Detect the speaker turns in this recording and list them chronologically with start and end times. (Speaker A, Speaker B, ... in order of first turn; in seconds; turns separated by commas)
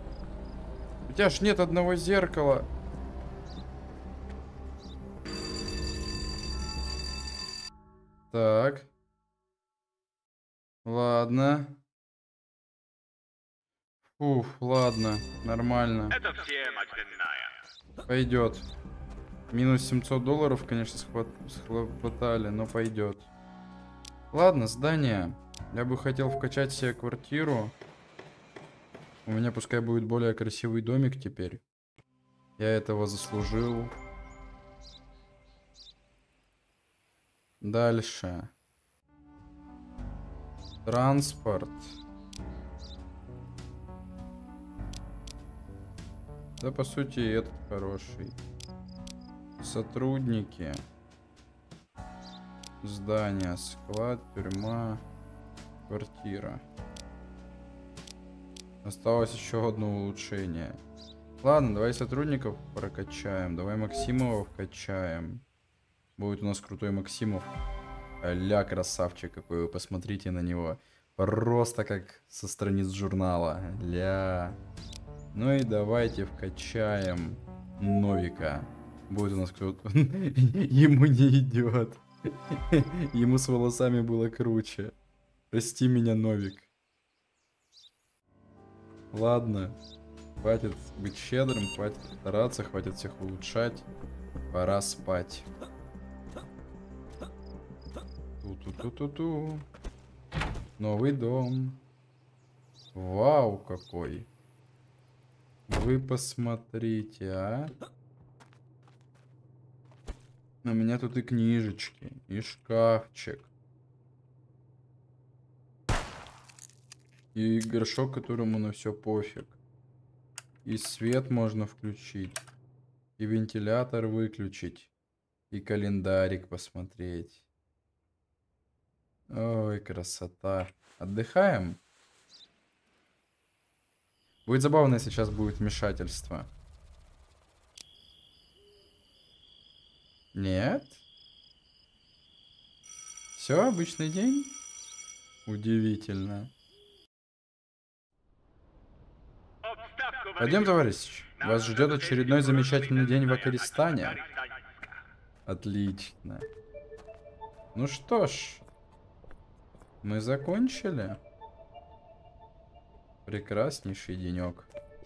Speaker A: 1.1-2.7, Speaker A: 8.3-8.9, Speaker A: 10.8-11.8, Speaker A: 14.2-16.2, Speaker B: 16.1-17.5, Speaker A: 18.1-18.7, Speaker A: 19.5-23.3, Speaker A: 24.3-27.8, Speaker A: 29.2-31.6, Speaker A: 32.6-33.9, Speaker A: 37.6-38.5, Speaker A: 40.9-42.0, Speaker A: 46.6-48.4, Speaker A: 49.6-50.8, Speaker A: 52.8-55.0, Speaker A: 55.9-56.6, Speaker A: 58.8-60.8, Speaker A: 61.4-65.4, Speaker A: 66.2-67.5, Speaker A: 68.2-74.6, Speaker A: 75.3-84.9, Speaker A: 85.5-86.7, Speaker A: 89.1-89.8, Speaker A: 90.4-93.9, Speaker A: 94.5-95.5, Speaker A: 98.4-99.7, Speaker A: 100.8-101.8, Speaker A: 102.9-104.3, Speaker A: 105.7-107.7, Speaker A: 110.6-113.5, Speaker A: 117.3-119.6, Speaker A: 120.7-122.4, Speaker A: 123.2-124.9, Speaker A: 125.5-127.4, Speaker A: 129.3-131.8, Speaker A: 134.5-136.5, Speaker A: 140.3-141.0, Speaker A: 143.4-144.6, Speaker A: 145.5-146.5, Speaker B: 149.6-150.8, Speaker A: 150.4-154.2, Speaker B: 151.4-155.0, Speaker A: 155.5-156.5, Speaker A: 157.7-158.6, Speaker A: 160.0-161.2, Speaker A: 163.3-164.7